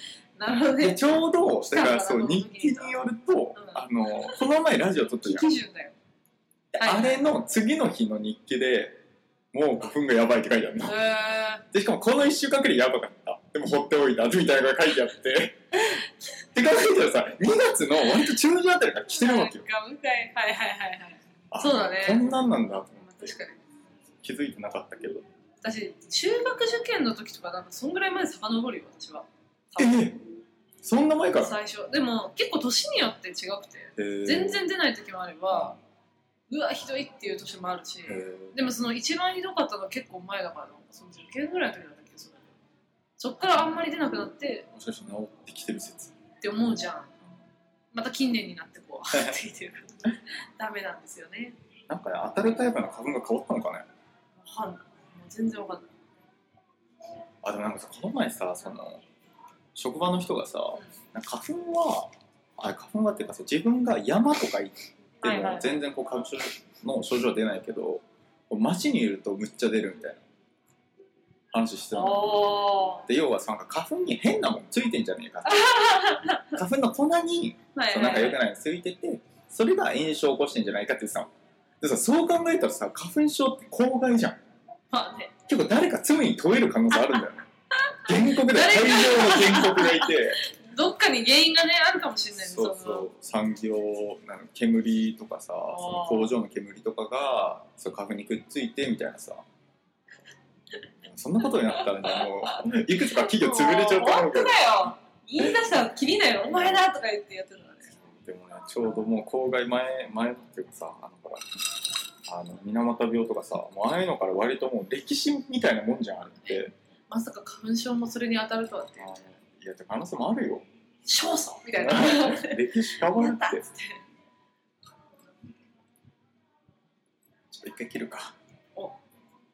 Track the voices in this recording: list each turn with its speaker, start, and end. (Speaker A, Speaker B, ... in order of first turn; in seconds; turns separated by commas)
Speaker A: 0.4-1.1, Speaker B: 0.8-5.5, Speaker A: 1.6-3.0, Speaker A: 3.5-4.4, Speaker A: 5.2-6.0, Speaker B: 6.7-9.0, Speaker A: 6.8-7.3, Speaker B: 9.5-11.1, Speaker A: 10.8-11.6, Speaker B: 11.7-19.7, Speaker A: 19.1-22.4, Speaker B: 21.5-23.4, Speaker A: 23.0-23.6, Speaker B: 24.2-25.2, Speaker A: 25.6-30.1, Speaker B: 29.8-30.2, Speaker B: 30.8-31.6, Speaker A: 31.3-35.8, Speaker B: 34.0-34.7, Speaker B: 35.5-35.8, Speaker A: 36.5-42.5, Speaker B: 38.0-38.7, Speaker A: 43.2-44.7, Speaker B: 44.7-46.1, Speaker A: 46.4-47.1, Speaker A: 47.9-51.6, Speaker B: 49.1-49.4, Speaker B: 51.9-53.9, Speaker A: 54.4-55.9, Speaker B: 57.4-59.0, Speaker B: 59.7-70.2, Speaker A: 65.2-65.8, Speaker B: 71.5-72.5, Speaker A: 71.9-73.1, Speaker B: 73.1-75.9, Speaker A: 75.4-76.6, Speaker B: 76.5-84.4, Speaker A: 77.7-78.4, Speaker A: 84.9-85.3, Speaker B: 85.5-87.5, Speaker A: 87.9-93.1, Speaker B: 88.0-90.4, Speaker B: 92.4-99.4, Speaker A: 95.7-96.3, Speaker B: 101.0-104.8, Speaker A: 101.7-102.6, Speaker A: 103.1-107.9, Speaker B: 105.4-105.8, Speaker B: 106.4-106.8, Speaker B: 108.0-116.7, Speaker A: 117.1-119.2, Speaker B: 119.0-120.6, Speaker A: 121.0-124.0, Speaker B: 121.7-123.6, Speaker B: 127.5-128.3